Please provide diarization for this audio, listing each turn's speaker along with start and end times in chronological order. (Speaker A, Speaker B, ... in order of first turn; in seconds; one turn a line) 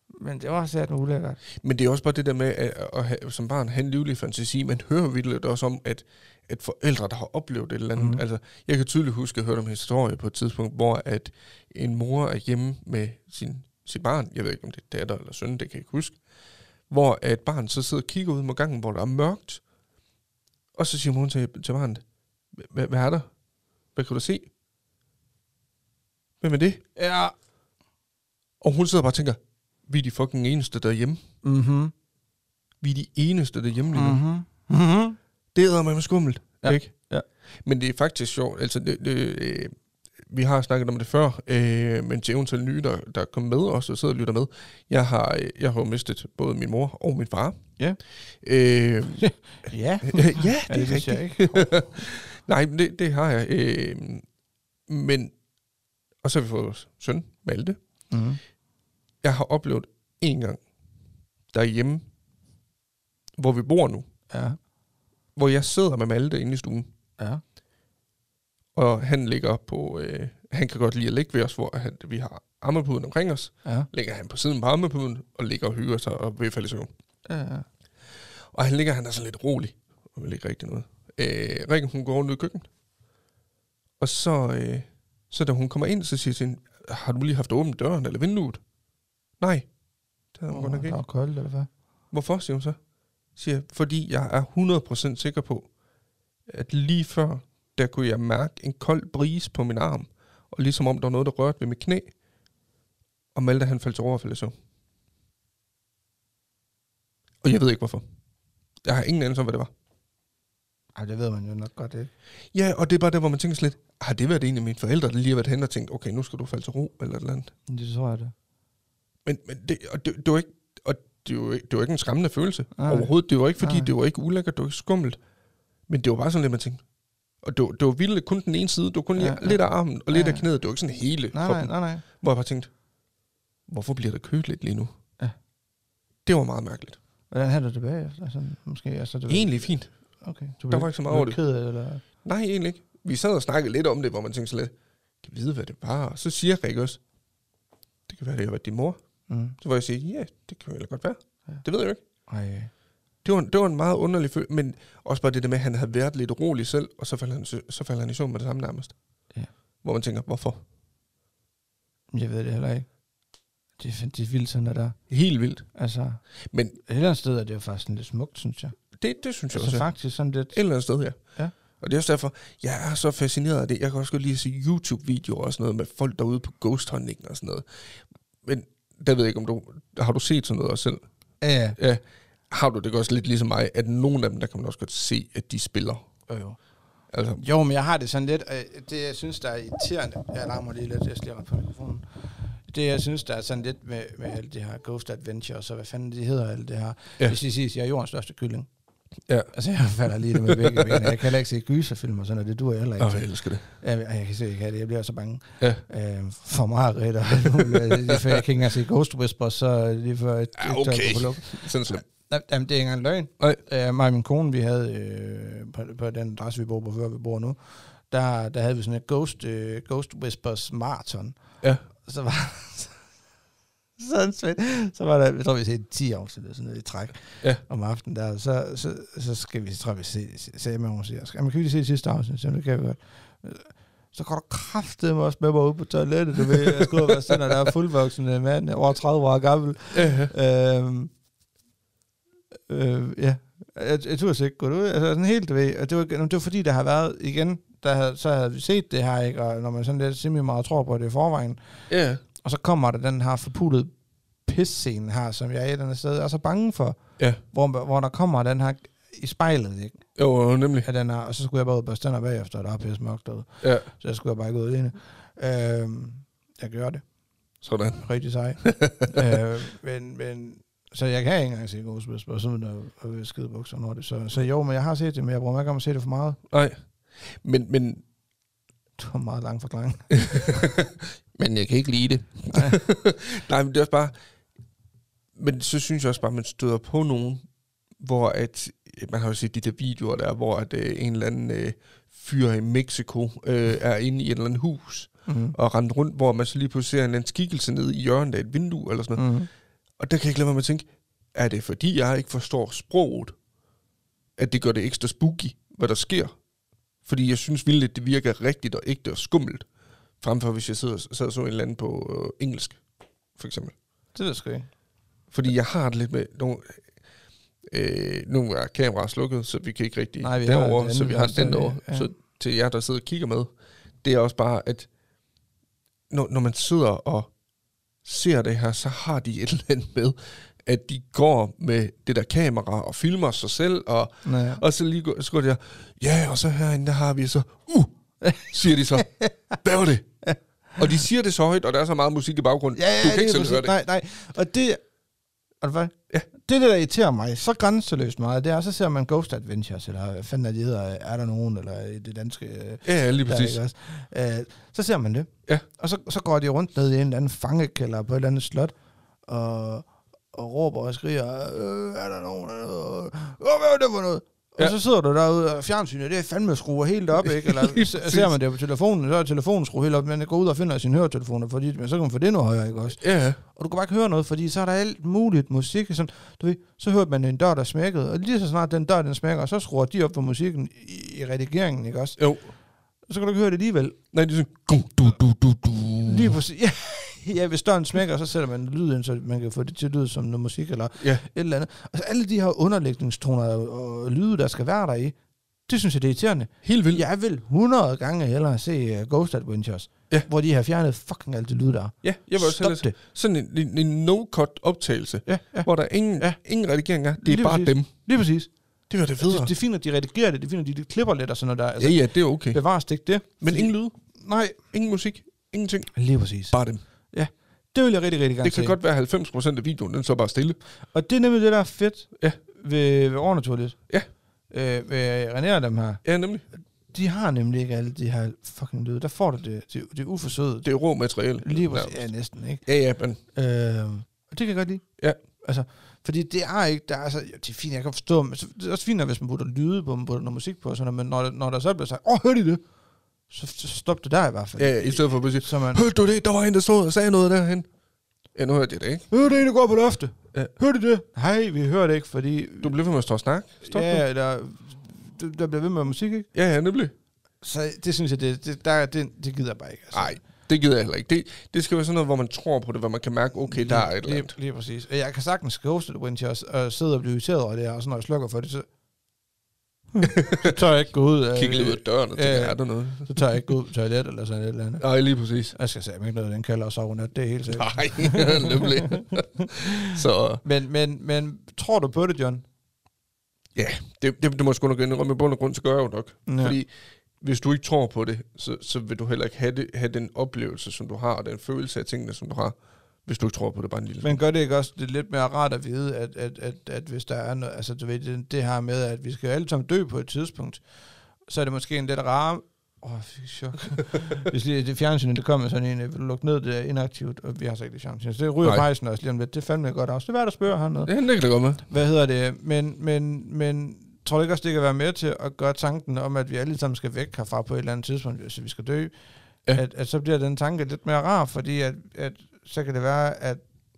Speaker A: 0.1-1.4
Speaker B: 1.6-16.2
Speaker A: 8.0-8.2
Speaker B: 16.9-19.6
Speaker B: 20.8-22.0
Speaker B: 22.5-23.3
Speaker B: 23.9-24.5
Speaker B: 26.4-26.8
Speaker A: 27.0-27.3
Speaker B: 28.6-31.2
Speaker A: 31.4-31.9
Speaker B: 32.8-34.2
Speaker A: 33.9-35.2
Speaker B: 35.5-36.9
Speaker A: 36.6-37.2
Speaker B: 37.6-47.6
Speaker B: 48.4-49.3
Speaker A: 49.2-52.0
Speaker B: 50.0-54.2
Speaker B: 54.9-55.3
Speaker B: 56.2-57.8
Speaker A: 58.1-58.4
Speaker B: 59.2-60.6
Speaker B: 61.5-62.0
Speaker B: 63.4-64.1
Speaker A: 64.3-64.6
Speaker B: 65.4-66.9
Speaker B: 68.8-76.9
Speaker A: 77.3-77.7
Speaker B: 78.5-82.7
Speaker B: 84.0-88.6
Speaker B: 89.4-89.7
Speaker B: 90.3-91.0
Speaker A: 90.5-91.7
Speaker B: 92.1-92.8
Speaker B: 93.4-95.7
Speaker B: 96.5-102.1
Speaker B: 103.3-104.5
Speaker B: 107.4-108.0
Speaker B: 108.8-109.7
Speaker A: 111.0-112.1
Speaker B: 112.5-117.5
Speaker A: 117.7-118.3
Speaker B: 119.2-125.2
Speaker A: 122.8-123.9
Speaker B: 125.9-126.8
Speaker B: 127.4-132.7
Speaker A: 129.2-130.5
Speaker A: 131.3-132.0
Speaker B: 133.7-134.9
Speaker B: 136.3-137.0
Speaker A: 137.3-142.0
Speaker B: 139.3-139.9
Speaker B: 140.7-141.4
Speaker B: 142.2-147.0
Speaker B: 148.1-149.0
Speaker A: 149.3-149.6
Speaker B: 149.6-152.0
Speaker A: 152.3-152.7
Speaker B: 153.2-159.0
Speaker B: 159.8-160.6
Speaker A: 162.1-162.9
Speaker A: 163.8-165.1
Speaker B: 165.1-165.7
Speaker A: 165.8-166.2
Speaker A: 166.8-168.8
Speaker B: 169.0-169.9
Speaker A: 169.5-170.6
Speaker B: 170.5-171.2
Speaker B: 171.8-177.7
Speaker B: 178.4-181.0
Speaker A: 181.4-181.8
Speaker B: 181.8-186.1
Speaker A: 186.3-186.6
Speaker B: 187.1-187.4
Speaker A: 187.4-198.7
Speaker B: 199.3-199.5
Speaker A: 199.5-221.4
Speaker B: 200.5-201.1
Speaker B: 203.0-203.6
Speaker B: 207.6-208.4
Speaker B: 210.6-212.1
Speaker A: 221.9-223.0
Speaker A: 224.0-241.1
Speaker B: 239.9-240.3
Speaker A: 242.7-253.9
Speaker B: 251.9-252.2
Speaker A: 254.4-260.1
Speaker B: 260.2-260.9
Speaker A: 260.8-267.0
Speaker B: 263.6-263.9
Speaker B: 267.6-268.1
Speaker A: 268.0-276.4
Speaker B: 268.6-269.4
Speaker B: 276.5-278.0
Speaker A: 279.0-280.6
Speaker B: 280.3-284.1
Speaker A: 282.5-282.8
Speaker B: 285.4-287.4
Speaker B: 288.0-299.3
Speaker A: 295.3-295.6
Speaker A: 299.1-299.5
Speaker B: 300.0-303.4
Speaker B: 304.4-306.3
Speaker B: 307.1-309.7
Speaker B: 310.2-312.8
Speaker B: 313.4-313.8
Speaker A: 314.1-314.7
Speaker B: 315.3-316.8
Speaker B: 317.7-323.5
Speaker A: 320.2-322.1
Speaker B: 324.0-324.9
Speaker B: 326.1-327.3
Speaker B: 328.0-337.9
Speaker A: 334.2-334.6
Speaker A: 338.2-339.6
Speaker B: 338.5-340.1
Speaker A: 340.2-341.1
Speaker B: 340.8-343.7
Speaker A: 342.8-344.8
Speaker A: 345.6-358.7
Speaker B: 352.8-353.6
Speaker A: 359.3-382.2
Speaker B: 367.3-368.3
Speaker B: 373.0-373.4
Speaker B: 382.2-382.5
Speaker A: 383.1-384.0
Speaker B: 384.1-386.4
Speaker A: 386.1-402.9
Speaker B: 391.0-391.2
Speaker B: 396.6-397.0
Speaker B: 402.0-407.9
Speaker A: 405.3-406.4
Speaker A: 407.2-408.5
Speaker B: 408.9-409.5
Speaker A: 409.2-414.6
Speaker B: 411.8-412.6
Speaker B: 413.4-413.9
Speaker B: 414.7-415.9
Speaker A: 415.9-416.6
Speaker B: 416.5-416.8
Speaker A: 417.1-418.8
Speaker B: 418.4-420.6
Speaker A: 420.9-423.8
Speaker A: 424.5-426.0
Speaker B: 426.0-426.4
Speaker A: 426.9-430.7
Speaker B: 430.6-432.1
Speaker A: 431.4-432.6
Speaker B: 432.6-433.2
Speaker A: 433.3-434.9
Speaker A: 435.4-442.6
Speaker A: 443.3-445.9
Speaker B: 444.6-447.7
Speaker B: 448.4-449.1
Speaker A: 449.1-452.8
Speaker B: 452.6-454.0
Speaker A: 453.6-456.3
Speaker B: 456.3-456.9
Speaker A: 457.4-460.2
Speaker B: 459.9-464.3
Speaker A: 463.5-468.7
Speaker A: 469.9-474.8
Speaker B: 470.0-470.6
Speaker B: 471.4-473.4
Speaker B: 474.8-475.6
Speaker A: 475.5-482.4
Speaker B: 477.5-480.4
Speaker B: 483.6-486.7
Speaker A: 486.3-486.6
Speaker B: 487.2-492.6
Speaker B: 493.1-494.2
Speaker A: 494.0-500.6
Speaker A: 501.3-510.9
Speaker B: 510.9-511.6
Speaker A: 511.7-518.9
Speaker A: 519.5-523.4